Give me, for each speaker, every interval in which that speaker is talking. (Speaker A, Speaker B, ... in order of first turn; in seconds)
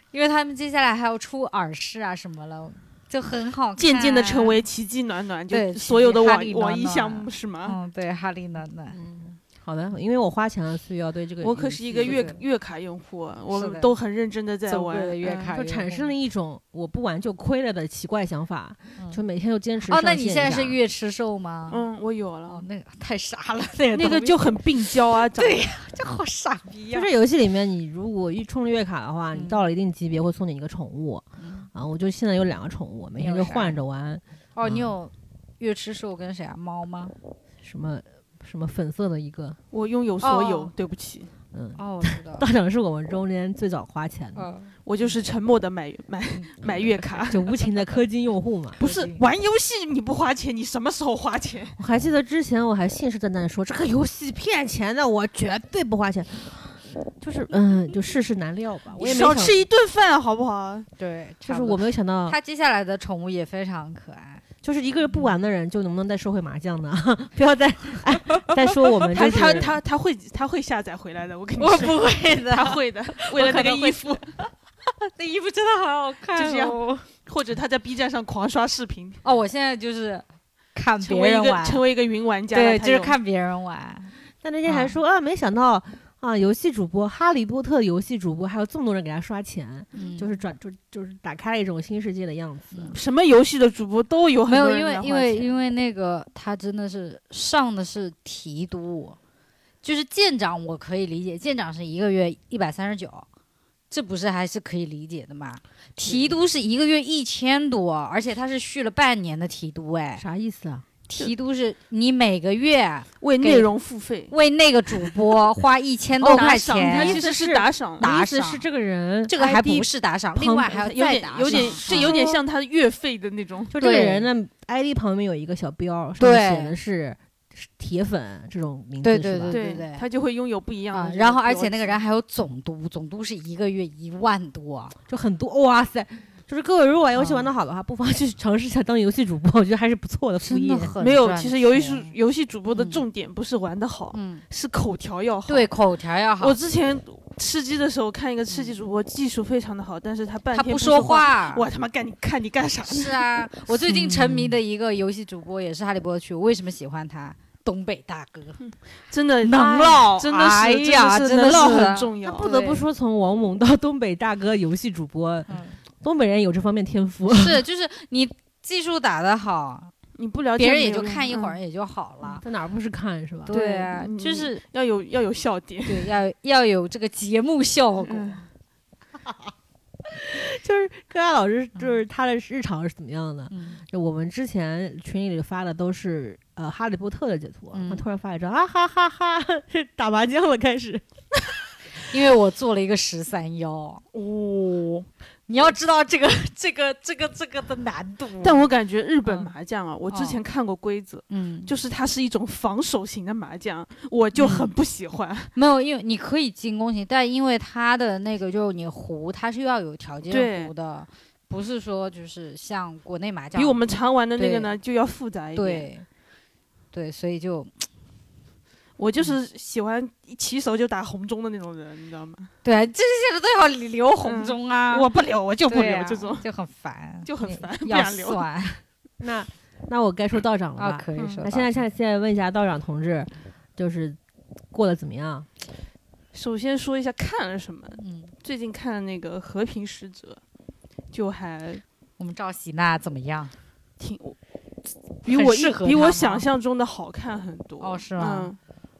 Speaker A: 0.1-4.6, 5.5-9.0, 12.0-12.4, 13.5-13.9, 14.7-16.1, 19.8-21.8, 22.5-27.1, 29.3-29.6, 31.4-31.7, 33.2-33.8, 34.5-37.1, 40.2-40.7, 41.8-42.5, 44.3-44.7, 46.3-47.3, 48.8-49.3, 59.0-59.3, 61.0-64.4, 68.4-69.7, 71.6-74.5, 75.1-77.0, 79.2-81.8, 82.5-84.1, 84.7-84.9, 89.9-90.3, 94.5-99.2, 99.8-103.3, 103.9-110.2, 111.1-113.7, 114.3-117.3, 118.0-118.6, 119.3-122.3, 123.8-124.3, 126.2-126.8, 129.0-130.1, 130.9-134.9, 137.1-137.5, 140.4-142.1, 142.7-143.0, 144.1-144.4, 145.5-146.6, 148.5-148.8, 150.5-151.6, 152.9-158.6, 159.4-162.8, 165.5-165.8, 167.3-169.9, 170.6-172.4, 173.4-174.6, 175.9-178.4, 183.5-183.8, 187.7-188.1, 191.9-194.1, 195.5-198.7, 199.2-199.5, 200.1-200.4, 201.3-201.7, 204.4-204.7, 205.6-213.8, 214.4-214.7, 215.6-216.1, 216.9-217.9, 222.6-225.1, 225.7-228.8, 230.8-231.8, 238.0-238.3, 242.2-243.6, 245.2-246.4, 247.8-248.5
Speaker B: 3.8-7.8, 11.4-15.5, 21.7-22.6, 23.9-25.6, 39.7-41.3, 44.8-47.5, 48.8-51.8, 59.0-60.9, 69.1-74.3, 76.3-79.2, 81.0-83.2, 92.9-95.5, 113.2-114.3, 116.2-118.0, 120.7-123.7, 129.5-132.0, 141.0-145.7, 146.4-153.3, 158.6-162.5, 170.2-171.6, 173.5-176.1, 178.1-178.4, 194.1-195.1, 198.4-205.5, 210.3-210.7, 213.6-215.9, 219.0-222.5, 224.2-226.4, 227.3-228.4, 231.2-231.4, 236.3-240.4, 241.1-241.8, 244.0-244.4, 245.2-248.6
Speaker C: 8.9-12.2, 15.5-20.8, 26.9-34.9, 37.6-39.6, 41.5-44.5, 47.3-48.8, 51.8-59.6, 61.5-62.4, 64.6-69.7, 84.4-92.9, 106.0-106.3, 110.2-110.8, 116.2-120.8, 121.5-122.4, 123.7-129.6, 135.1-141.0, 154.1-154.6, 162.2-167.6, 172.4-173.5, 179.2-179.5, 180.1-191.1, 229.2-234.2, 234.7-235.5